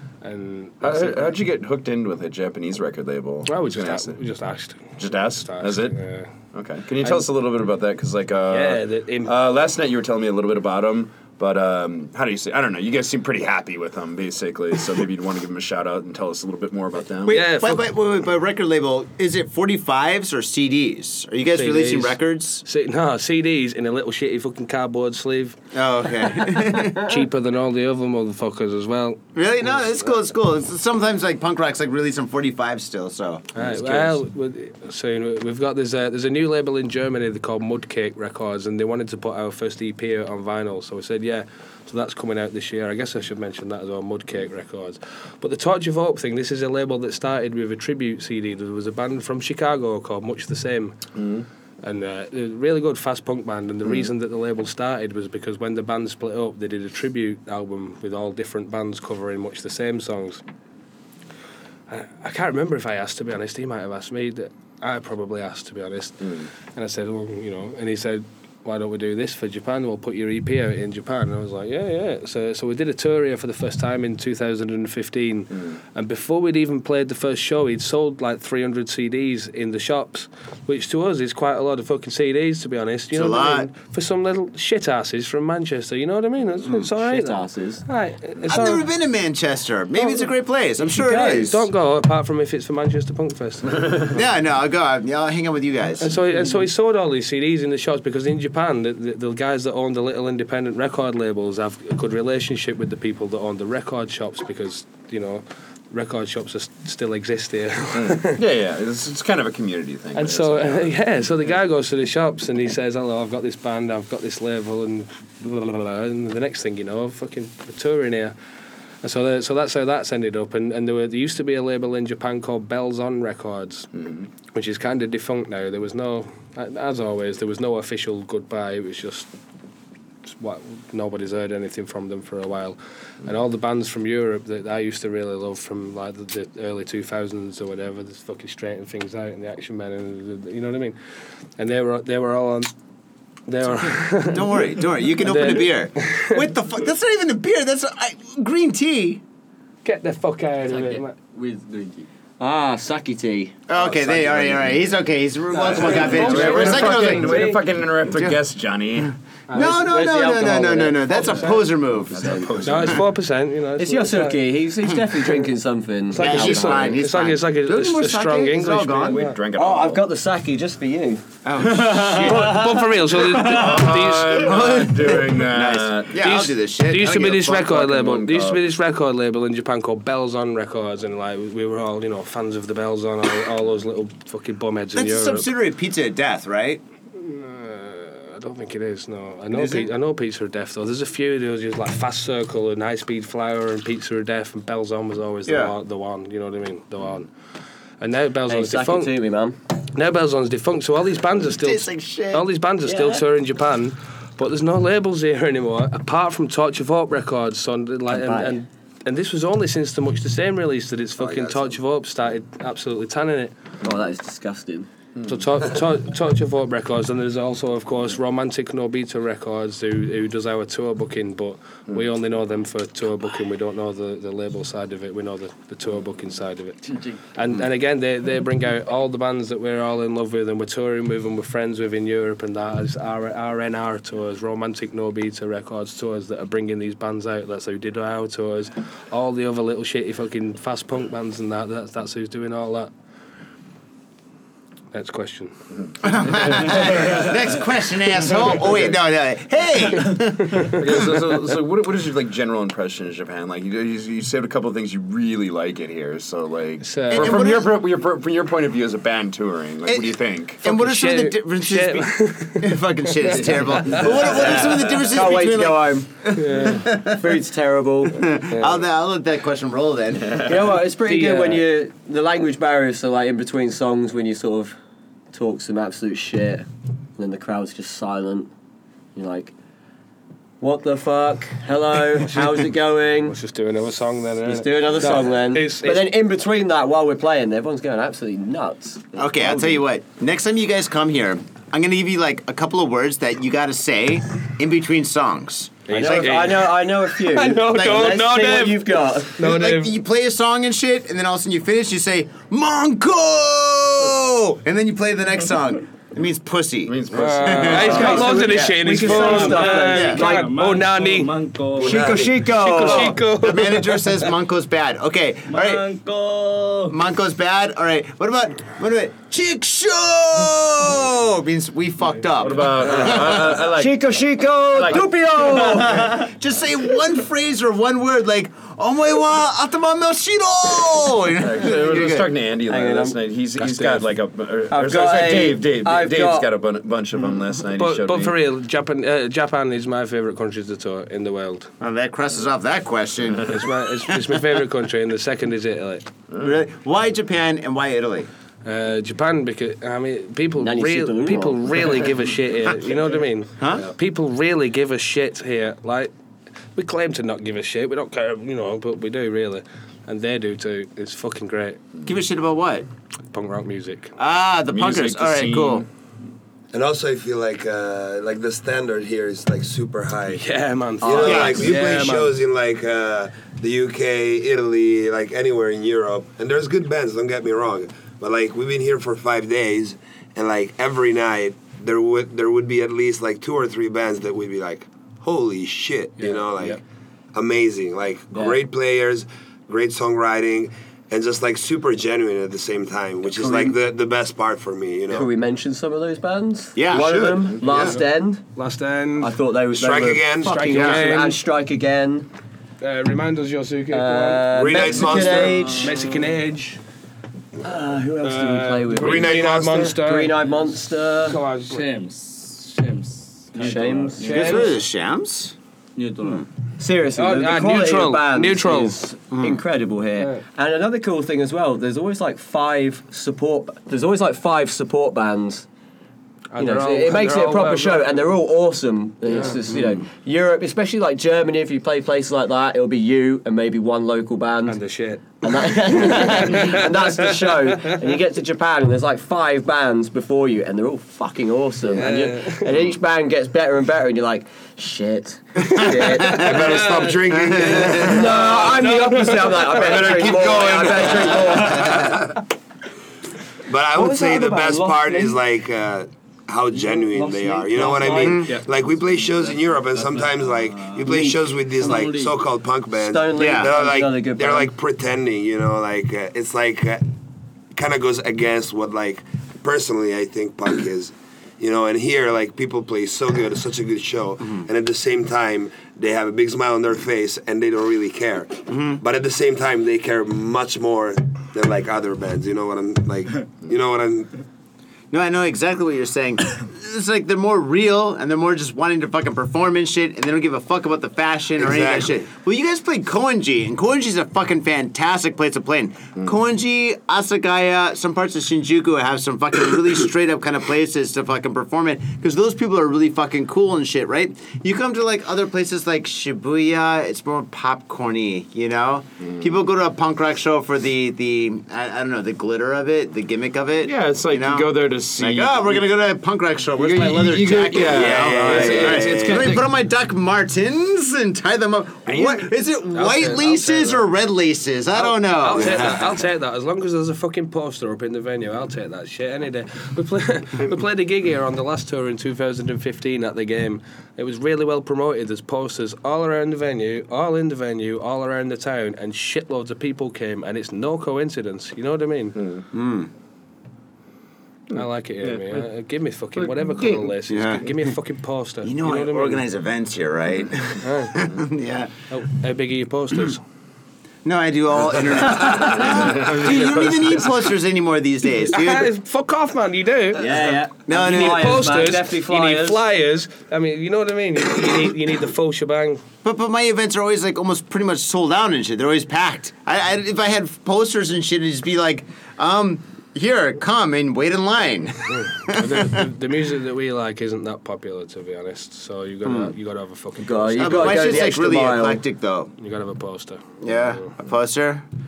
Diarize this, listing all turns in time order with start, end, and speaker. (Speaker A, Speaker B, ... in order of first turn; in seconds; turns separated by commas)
Speaker A: 0.2-1.3, Speaker B: 0.8-4.2, Speaker A: 3.5-6.3, Speaker B: 5.0-6.0, Speaker B: 6.5-17.4, Speaker A: 8.5-9.3, Speaker C: 17.2-22.6, Speaker A: 17.3-17.9, Speaker A: 21.5-25.6, Speaker C: 25.7-27.1, Speaker A: 26.9-29.2, Speaker C: 29.3-34.0, Speaker A: 33.5-51.0, Speaker B: 51.1-51.5, Speaker A: 51.8-60.4, Speaker A: 61.9-88.9, Speaker C: 83.1-83.7, Speaker D: 86.9-87.8, Speaker C: 88.4-91.6, Speaker D: 90.9-91.5, Speaker A: 91.1-94.2, Speaker C: 94.1-96.1, Speaker A: 96.0-108.4, Speaker B: 107.9-110.9, Speaker A: 110.1-118.3, Speaker A: 119.0-123.9, Speaker B: 124.0-124.2, Speaker A: 124.5-129.3, Speaker A: 130.2-140.9, Speaker A: 141.6-142.7, Speaker A: 143.5-144.6, Speaker C: 144.2-149.2, Speaker A: 145.2-146.4, Speaker A: 149.8-151.1, Speaker D: 150.7-154.7, Speaker C: 153.7-157.5, Speaker D: 155.5-156.8, Speaker A: 155.6-157.6, Speaker B: 155.8-159.1, Speaker C: 158.1-158.4, Speaker A: 159.5-159.8, Speaker C: 159.5-162.5, Speaker D: 159.5-162.5, Speaker B: 162.1-163.0, Speaker A: 162.6-164.5, Speaker D: 163.8-167.0, Speaker A: 166.1-169.4, Speaker C: 166.1-169.3, Speaker B: 169.1-170.1, Speaker D: 169.5-172.8, Speaker C: 171.4-172.6, Speaker A: 172.2-174.9, Speaker B: 173.2-176.2, Speaker C: 174.5-177.8, Speaker A: 176.2-185.5, Speaker B: 177.7-178.6, Speaker C: 184.9-186.8, Speaker A: 187.2-197.3, Speaker C: 189.5-189.9, Speaker C: 195.5-195.7, Speaker A: 198.0-199.1, Speaker D: 198.5-199.6, Speaker A: 199.9-213.5, Speaker C: 201.6-202.4, Speaker D: 202.8-203.2, Speaker D: 208.1-208.6, Speaker D: 213.8-214.9, Speaker A: 215.2-242.9, Speaker A: 244.9-245.5, Speaker C: 246.0-251.0, Speaker B: 250.6-260.6, Speaker A: 256.8-257.4, Speaker C: 257.1-257.7, Speaker C: 259.9-267.2, Speaker A: 260.6-262.7, Speaker D: 264.3-268.2, Speaker A: 266.3-266.8, Speaker C: 268.1-270.5, Speaker D: 270.4-274.8, Speaker A: 271.0-271.6, Speaker D: 275.3-278.5, Speaker D: 279.1-279.5, Speaker D: 280.6-283.4, Speaker A: 283.2-286.1, Speaker D: 284.4-289.9, Speaker C: 289.1-296.4, Speaker A: 295.9-299.9, Speaker D: 295.9-299.4, Speaker C: 297.7-298.2, Speaker C: 299.4-308.8, Speaker B: 306.9-308.2, Speaker A: 307.1-311.4, Speaker D: 307.7-310.5, Speaker E: 309.0-312.5, Speaker C: 309.9-310.2, Speaker D: 311.8-313.2, Speaker F: 311.8-312.3, Speaker A: 312.4-314.1, Speaker C: 313.3-315.9, Speaker E: 315.5-317.0, Speaker C: 316.9-323.6, Speaker B: 322.4-324.2, Speaker D: 322.8-326.2, Speaker B: 324.7-325.8, Speaker C: 325.6-332.3, Speaker B: 331.4-338.3, Speaker D: 332.7-333.2, Speaker A: 333.6-334.0, Speaker D: 334.7-336.5, Speaker A: 337.8-341.7, Speaker C: 341.8-344.4, Speaker A: 343.5-346.1, Speaker C: 346.4-348.3, Speaker A: 348.6-356.1, Speaker D: 350.6-352.1, Speaker C: 353.6-353.9, Speaker A: 356.8-361.8, Speaker C: 362.0-362.9, Speaker A: 363.3-364.1, Speaker C: 364.2-365.8, Speaker B: 364.7-365.9, Speaker F: 366.7-370.4, Speaker A: 370.3-372.3, Speaker D: 371.0-372.0, Speaker F: 371.0-386.8, Speaker C: 371.2-371.6, Speaker A: 386.2-386.8, Speaker F: 387.3-395.3, Speaker D: 388.3-388.6, Speaker D: 393.4-393.8, Speaker D: 395.1-398.4, Speaker C: 396.8-397.4, Speaker A: 397.7-398.0, Speaker A: 398.5-399.3, Speaker D: 399.2-402.3, Speaker F: 399.7-400.9, Speaker A: 400.4-401.4, Speaker A: 402.8-406.8, Speaker D: 403.9-405.9, Speaker F: 404.5-405.8, Speaker D: 407.6-411.4, Speaker A: 408.2-410.4, Speaker F: 408.9-409.9, Speaker A: 411.2-411.9, Speaker E: 411.6-414.7, Speaker D: 413.5-414.7, Speaker C: 414.2-415.5, Speaker A: 414.2-414.7, Speaker E: 415.9-416.4, Speaker D: 416.8-425.7, Speaker A: 417.1-419.0, Speaker C: 419.3-419.6, Speaker A: 426.5-428.2, Speaker D: 426.6-434.8, Speaker A: 429.3-429.6, Speaker A: 434.7-438.0, Speaker D: 435.4-447.1, Speaker A: 441.9-442.7, Speaker C: 445.7-446.5, Speaker A: 446.2-447.1, Speaker F: 446.3-448.5, Speaker C: 447.3-448.1, Speaker D: 447.8-452.3, Speaker A: 448.0-450.3, Speaker C: 450.0-451.9, Speaker F: 450.0-450.8, Speaker F: 451.8-452.3, Speaker F: 453.7-467.0, Speaker D: 453.9-455.4, Speaker D: 457.0-458.4, Speaker C: 458.1-458.5, Speaker E: 459.9-461.1, Speaker D: 461.0-461.4, Speaker E: 461.8-462.3, Speaker D: 462.9-464.7, Speaker C: 463.4-463.7, Speaker F: 467.7-484.3, Speaker C: 478.7-479.0, Speaker C: 485.1-526.1, Speaker F: 491.6-492.2, Speaker B: 513.8-515.9, Speaker B: 516.7-519.6, Speaker F: 518.1-519.3, Speaker A: 518.4-519.0, Speaker B: 522.1-522.5, Speaker A: 522.9-524.1, Speaker A: 525.0-542.4, Speaker B: 542.4-542.6, Speaker C: 542.7-543.1, Speaker A: 544.7-549.4, Speaker B: 544.8-545.4, Speaker B: 546.4-547.0, Speaker C: 547.3-547.7, Speaker C: 548.6-551.9, Speaker A: 550.8-551.2, Speaker A: 552.1-553.4, Speaker C: 554.2-558.9, Speaker B: 555.8-557.1, Speaker A: 558.5-566.0, Speaker D: 560.2-562.8, Speaker C: 560.9-561.6, Speaker C: 566.2-576.0, Speaker A: 575.5-581.3, Speaker D: 580.2-582.0, Speaker C: 580.6-582.5, Speaker A: 582.6-583.4, Speaker C: 583.6-584.8